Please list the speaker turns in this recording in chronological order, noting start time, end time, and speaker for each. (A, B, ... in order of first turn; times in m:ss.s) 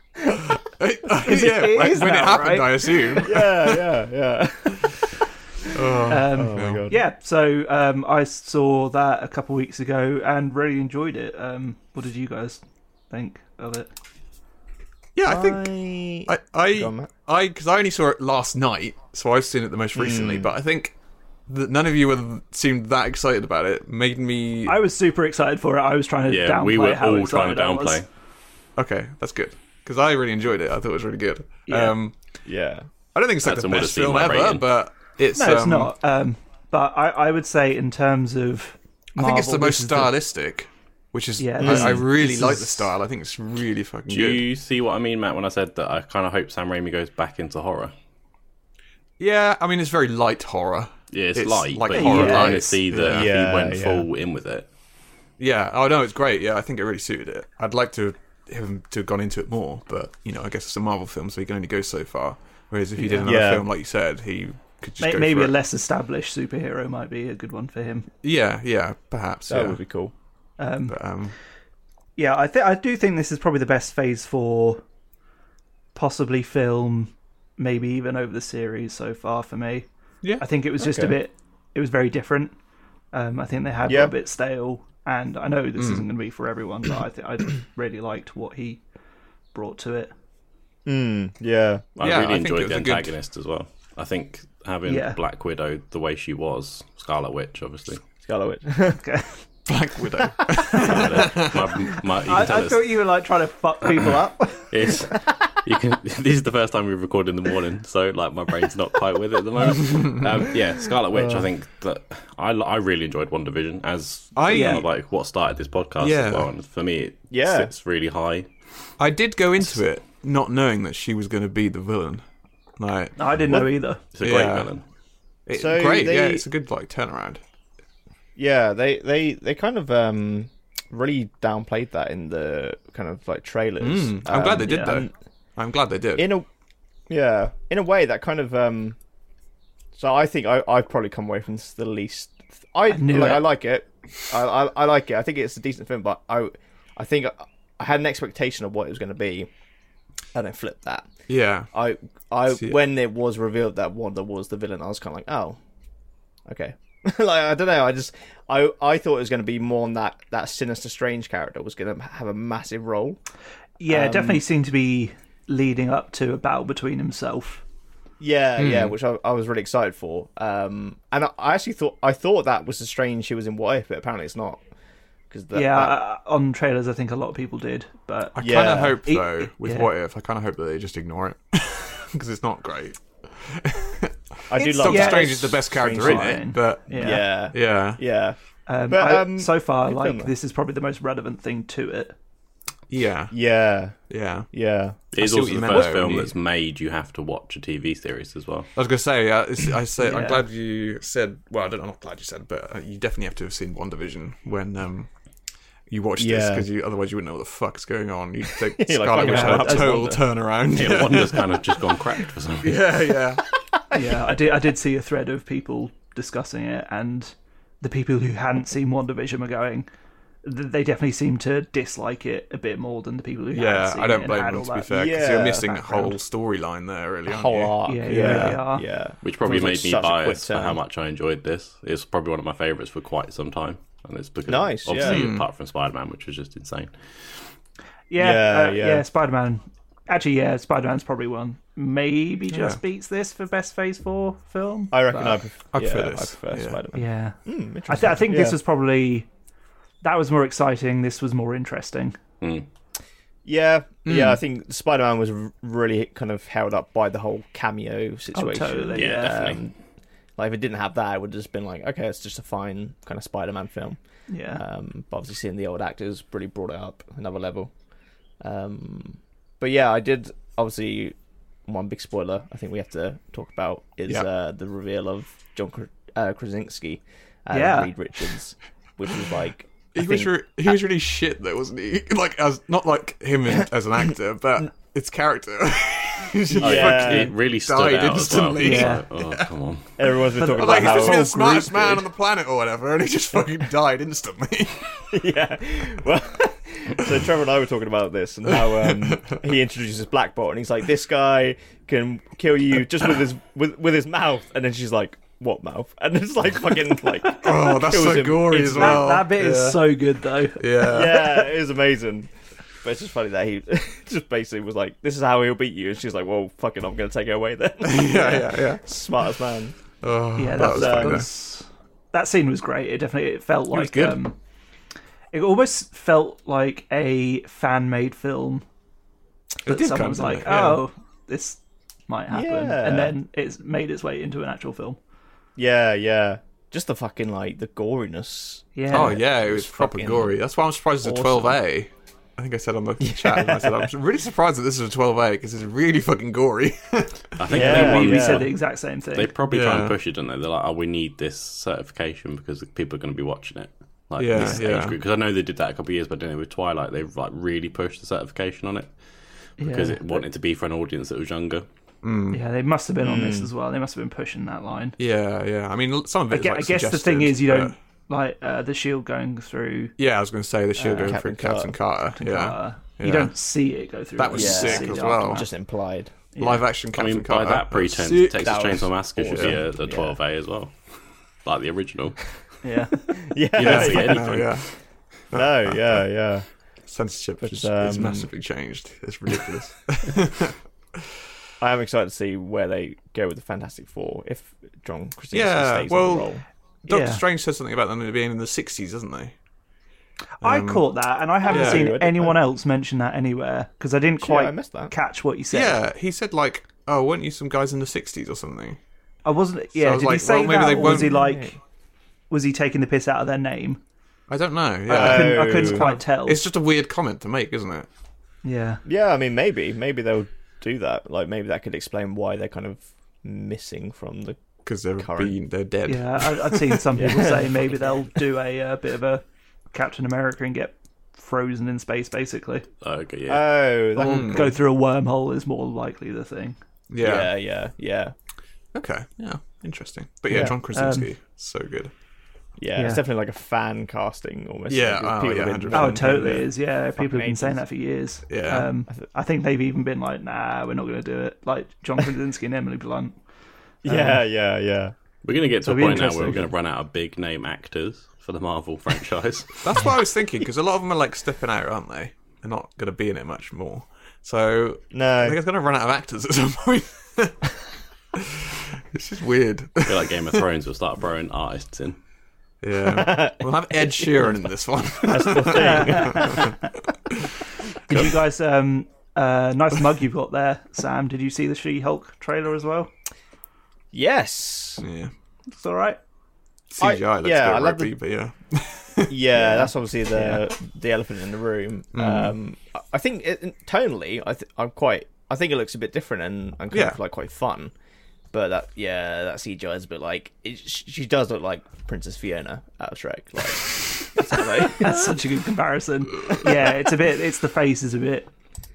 0:00.6-0:03.8 A
0:01.2-0:03.2 B
0:03.2-0:05.0 C
0:05.7-0:06.8 A
0:06.1-0:13.9 B
0:06.2-0:07.0 C
0:15.1-0:15.7 A
0:15.2-0:17.1 C
0:16.2-0:20.9 A
0:19.9-0:20.5 C
0:21.5-0:24.8 A
0:24.6-0:28.0 B
0:26.3-0:28.0 D
0:28.8-0:32.2 A
0:31.7-0:32.0 B
0:32.4-0:32.8 C
0:33.1-0:35.9 A
0:33.4-0:34.7 D
0:35.4-0:40.1 B
0:39.2-0:44.4 A
0:41.4-0:42.9 B
0:41.6-0:42.0 C
0:44.1-0:47.9 D
0:49.2-0:53.3 A
0:51.1-0:54.7 D
0:51.9-0:52.5 B
0:52.0-0:54.1 C
0:55.4-1:05.6 A
1:03.0-1:03.3 B
1:03.2-1:03.7 C
1:05.0-1:08.1 B
1:08.2-1:09.8 A
1:09.5-1:10.1 C
1:10.6-1:11.0 B
1:10.9-1:11.4 A
1:12.2-1:14.8 B
1:15.9-1:19.9 B
1:20.4-1:22.6 B
1:20.8-1:21.2 C
1:23.1-1:28.8 B
1:23.9-1:24.1 C
1:25.8-1:26.1 A
1:29.5-1:30.1 B
1:30.9-1:31.9 C
1:32.0-1:38.0 D
1:32.0-1:33.1 A
1:34.9-1:35.2 B
1:38.2-1:39.0 C
1:39.0-1:39.4 B
1:39.7-1:41.7 A
1:40.7-1:43.0 D
1:42.2-1:45.0 B
1:44.7-1:58.5 D
1:54.4-1:54.8 A
1:54.5-1:54.8 B
1:56.0-1:56.5 A
1:57.3-1:57.7 C
1:59.0-2:02.2 A
2:02.8-2:03.6 A
2:03.2-2:04.0 B
2:04.1-2:04.8 D
2:04.2-2:04.7 A
2:05.4-2:07.4 A
2:05.5-2:06.4 C
2:08.4-2:15.1 C
2:13.8-2:16.3 A
2:14.6-2:15.0 B
2:16.2-2:16.5 C
2:17.1-2:19.0 C
2:19.9-2:29.5 C
2:22.9-2:23.5 B
2:30.3-2:31.1 C
2:31.3-2:31.7 A
2:31.7-2:35.6 C
2:36.4-2:43.2 C
2:43.8-2:47.6 B
2:43.9-2:44.4 C
2:48.2-2:54.6 C
2:48.6-2:48.9 A
2:55.3-2:56.0 C
2:55.5-2:59.9 B
2:58.4-3:08.0 A
2:58.4-2:59.0 C
3:04.5-3:08.4 C
3:04.6-3:07.2 B
3:08.7-3:12.1 B
3:08.9-3:10.3 C
3:12.9-3:13.4 A
3:13.3-3:14.0 C
3:14.1-3:14.5 A
3:14.5-3:15.0 C
3:15.1-3:18.7 D
3:15.1-3:16.3 A
3:18.8-3:25.1 A
3:20.0-3:20.4 B
3:25.9-3:31.6 A
3:26.2-3:26.7 C
3:28.5-3:30.2 C
3:29.2-3:30.1 B
3:30.7-3:32.9 D
3:32.6-3:33.4 A
3:33.7-3:34.3 C
3:33.9-3:39.9 B
3:40.4-3:44.9 B
3:43.5-3:48.6 A
3:44.9-3:46.1 C
3:47.2-3:50.8 C
3:47.8-3:48.8 B
3:49.2-3:57.4 D
3:54.5-3:55.3 C
3:55.0-3:55.4 A
3:58.1-4:05.4 B
3:58.2-3:59.0 C
4:02.5-4:02.8 A
4:04.9-4:08.6 C
4:05.7-4:06.8 A
4:06.9-4:09.3 B
4:10.0-4:12.2 B
4:12.4-4:12.7 D
4:13.4-4:19.8 C
4:14.1-4:14.4 A
4:18.3-4:19.5 B
4:18.9-4:19.6 D
4:20.4-4:24.0 C
4:24.3-4:24.6 B
4:24.5-4:27.7 C
4:28.4-4:40.7 C
4:37.5-4:37.9 B
4:39.9-4:49.5 A
4:46.5-4:47.3 C
4:46.6-4:49.9 D
4:48.6-4:49.1 B
4:50.0-4:51.3 C
4:50.3-4:52.0 B
4:50.5-4:55.1 A
4:55.1-5:09.1 C
4:58.5-4:59.4 A
5:07.4-5:09.9 A
5:08.7-5:10.6 B
5:10.6-5:11.4 A
5:10.8-5:19.8 C
5:17.8-5:18.9 A
5:20.0-5:21.3 A
5:20.4-5:24.4 B
5:20.6-5:21.2 C
5:23.7-5:24.2 A
5:25.3-5:28.6 B
5:29.6-5:30.8 A
5:29.6-5:35.0 B
5:32.3-5:33.1 C
5:35.6-5:40.4 C
5:38.7-5:39.2 B
5:38.9-5:47.3 A
5:41.0-5:41.6 C
5:43.0-5:43.9 C
5:47.4-5:48.5 D
5:47.5-5:48.5 C
5:47.5-5:49.3 B
5:49.1-5:58.9 D
5:49.5-5:49.9 A
5:54.2-5:55.0 A
5:59.6-6:01.6 D
5:59.6-6:00.2 B
6:02.0-6:02.4 A
6:02.3-6:05.0 B
6:03.0-6:03.5 C
6:05.0-6:07.7 A
6:06.3-6:09.9 B
6:10.0-6:13.3 A
6:10.8-6:11.7 C
6:12.1-6:15.5 B
6:14.2-6:15.4 A
6:14.3-6:16.1 C
6:16.3-6:16.6 B
6:16.4-6:19.6 A
6:16.9-6:20.8 D
6:18.4-6:20.2 C
6:21.4-6:22.4 D
6:22.6-6:23.1 B
6:23.1-6:24.6 C
6:23.5-6:24.6 D
6:23.6-6:24.7 A
6:25.3-6:26.0 A
6:25.3-6:26.4 C
6:26.9-6:30.6 A
6:27.4-6:28.3 C
6:31.6-6:36.4 C
6:35.3-6:36.3 A
6:36.8-6:39.3 A
6:36.9-6:37.2 B
6:40.4-6:45.8 B
6:40.4-6:40.9 A
6:41.4-6:42.4 C
6:41.4-6:41.9 A
6:44.2-6:44.9 C
6:45.5-6:48.8 A
6:49.2-6:51.6 B
6:49.8-6:51.2 A
6:50.6-6:51.5 C
6:52.3-6:53.8 B
6:54.3-6:57.9 A
6:54.9-6:55.9 C
6:54.9-6:56.4 B
6:58.4-6:58.8 B
6:58.8-7:04.4 C
7:04.6-7:06.8 A
7:05.0-7:05.3 C
7:05.9-7:12.6 B
7:06.9-7:07.6 C
7:12.8-7:13.6 D
7:13.3-7:14.5 C
7:14.0-7:16.6 B
7:14.0-7:14.5 A
7:16.9-7:17.3 A
7:17.0-7:18.1 C
7:18.7-7:21.9 A
7:20.3-7:20.6 C
7:20.4-7:21.1 B
7:22.6-7:27.6 C
7:22.8-7:23.0 B
7:24.7-7:26.5 A
7:25.7-7:33.2 B
7:28.3-7:28.7 A
7:33.8-7:34.9 C
7:33.9-7:34.2 B
7:35.2-7:39.6 D
7:35.6-7:36.5 B
7:39.6-7:47.5 A
7:44.9-7:45.4 C
7:48.1-7:50.4 A
7:49.9-7:52.0 D
7:52.6-7:57.3 A
7:52.9-7:54.3 C
7:55.1-7:56.5 C
7:55.5-7:56.5 B
7:57.9-8:02.9 B
8:03.9-8:04.8 C
8:04.8-8:05.1 A
8:05.5-8:06.0 B
8:06.7-8:09.2 A
8:06.8-8:07.9 C
8:09.1-8:17.7 C
8:09.4-8:10.4 B
8:11.9-8:12.3 A
8:16.7-8:17.0 A
8:18.3-8:25.2 C
8:24.4-8:28.3 B